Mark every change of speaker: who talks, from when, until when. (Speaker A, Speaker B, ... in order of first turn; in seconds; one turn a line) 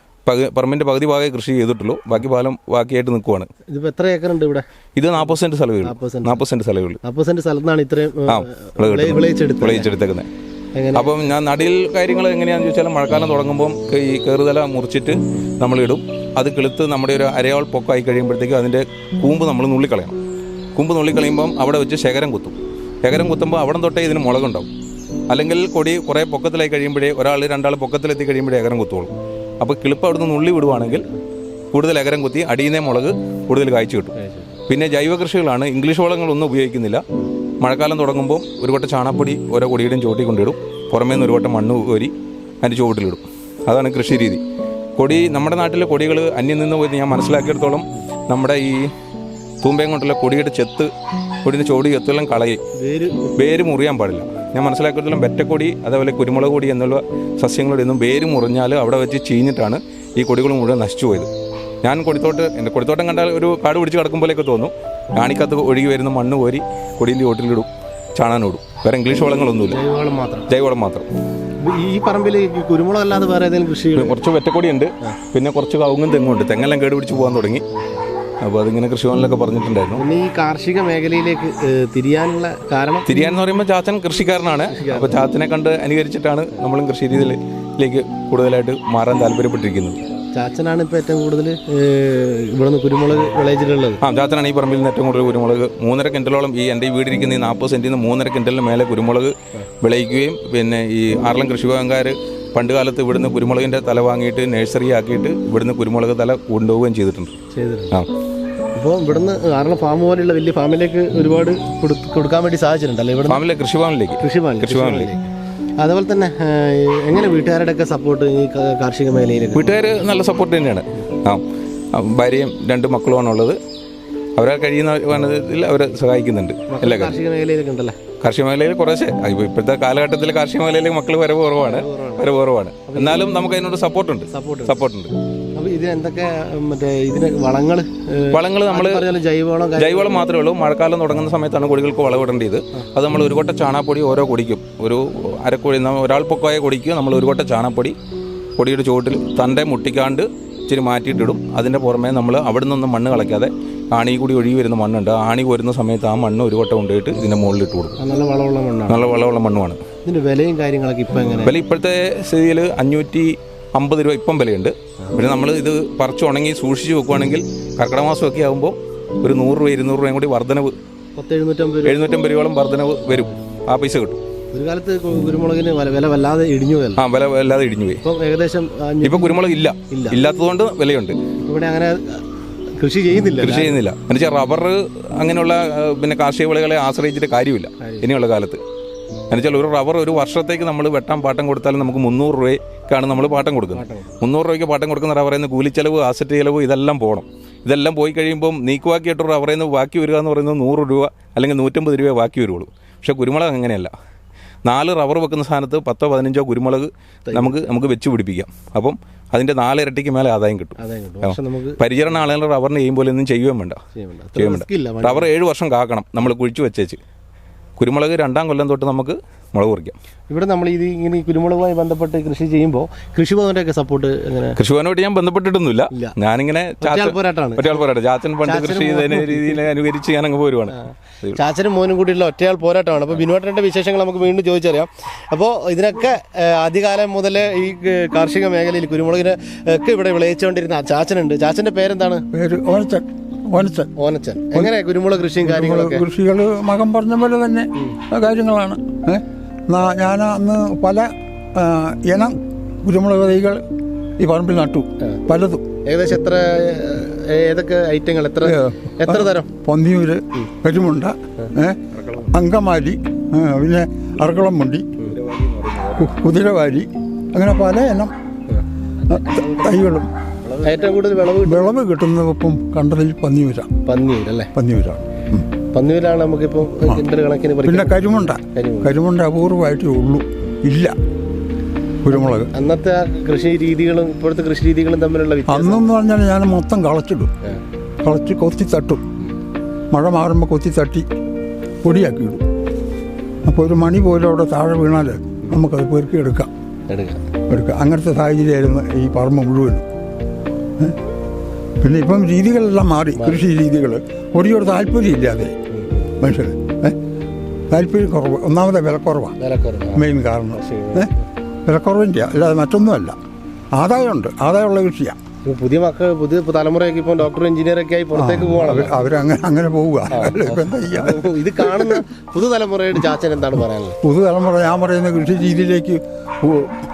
Speaker A: 0.2-3.5
Speaker B: 3.7-4.6
Speaker A: 5.0-7.0
Speaker B: 5.8-6.5
Speaker B: 7.0-9.9
Speaker A: 8.3-10.3
Speaker B: 10.7-11.2
Speaker A: 10.9-20.1
Speaker A: 20.7-24.7
Speaker A: 25.3-31.1
Speaker A: 31.7-34.1
Speaker B: 34.1-34.6
Speaker A: 34.7-37.0
Speaker A: 37.6-44.4
Speaker A: 45.0-48.9
Speaker A: 49.6-50.9
Speaker A: 51.4-52.6
Speaker B: 52.8-53.5
Speaker A: 53.4-61.3
Speaker A: 61.8-69.8
Speaker B: 69.6-70.5
Speaker A: 70.5-71.0
Speaker B: 71.6-74.2
Speaker A: 73.9-77.6
Speaker B: 77.8-78.0
Speaker A: 78.4-80.0
Speaker B: 79.9-83.1
Speaker A: 83.0-90.0
Speaker B: 84.7-85.2
Speaker B: 90.3-94.0
Speaker A: 94.0-107.3
Speaker B: 107.5-108.0
Speaker B: 108.7-113.4
Speaker A: 113.3-115.1
Speaker B: 114.2-115.3
Speaker B: 115.8-119.9
Speaker A: 119.5-123.6
Speaker A: 124.4-127.2
Speaker B: 126.7-128.0
Speaker A: 128.2-135.1
Speaker B: 131.6-132.3
Speaker B: 132.9-133.3
Speaker B: 134.3-134.8
Speaker B: 135.5-140.2
Speaker A: 138.3-139.1
Speaker A: 139.8-147.9
Speaker A: 148.6-158.0
Speaker B: 158.0-159.1
Speaker A: 158.9-159.8
Speaker B: 160.0-161.6
Speaker A: 161.4-170.7
Speaker B: 171.2-172.1
Speaker A: 171.8-174.2
Speaker B: 173.1-173.4
Speaker B: 174.5-177.0
Speaker A: 177.0-178.0
Speaker B: 178.0-180.2
Speaker A: 179.0-181.2
Speaker B: 181.4-182.2
Speaker B: 182.8-183.8
Speaker A: 183.4-188.6
Speaker B: 187.8-188.1
Speaker A: 189.3-203.9
Speaker B: 193.7-194.2
Speaker A: 204.7-213.8
Speaker B: 207.3-207.7
Speaker B: 210.8-211.8
Speaker B: 213.9-215.3
Speaker A: 214.4-217.0
Speaker A: 217.8-219.9
Speaker B: 220.3-224.6
Speaker A: 224.6-231.4
Speaker B: 226.8-227.8
Speaker B: 228.4-229.6
Speaker B: 231.3-242.2
Speaker C: 242.3-243.9
Speaker B: 244.0-246.1
Speaker C: 245.4-253.6
Speaker C: 254.2-255.6
Speaker B: 255.8-259.5
Speaker C: 258.4-261.8
Speaker A: 261.9-262.4
Speaker C: 262.3-264.9
Speaker A: 265.0-266.3
Speaker C: 266.0-268.1
Speaker B: 268.5-269.8
Speaker C: 269.1-270.1
Speaker B: 270.5-271.7
Speaker C: 271.4-273.7
Speaker B: 273.9-274.5
Speaker C: 274.5-275.4
Speaker B: 275.7-278.9
Speaker C: 277.6-280.9
Speaker C: 282.0-282.5
Speaker B: 282.3-285.9
Speaker C: 285.5-287.3
Speaker C: 288.0-289.0
Speaker C: 289.9-291.1
Speaker C: 291.8-292.4
Speaker C: 293.4-296.5
Speaker B: 296.9-297.2
Speaker C: 297.5-299.8
Speaker C: 301.8-305.5
Speaker B: 303.1-303.4
Speaker B: 305.7-306.1
Speaker C: 306.2-307.0
Speaker C: 307.7-309.4
Speaker B: 309.4-311.2
Speaker C: 309.9-311.1
Speaker C: 311.6-313.1
Speaker C: 313.8-315.1
Speaker B: 315.4-319.1
Speaker C: 318.1-322.0
Speaker B: 320.1-324.0
Speaker C: 324.0-326.8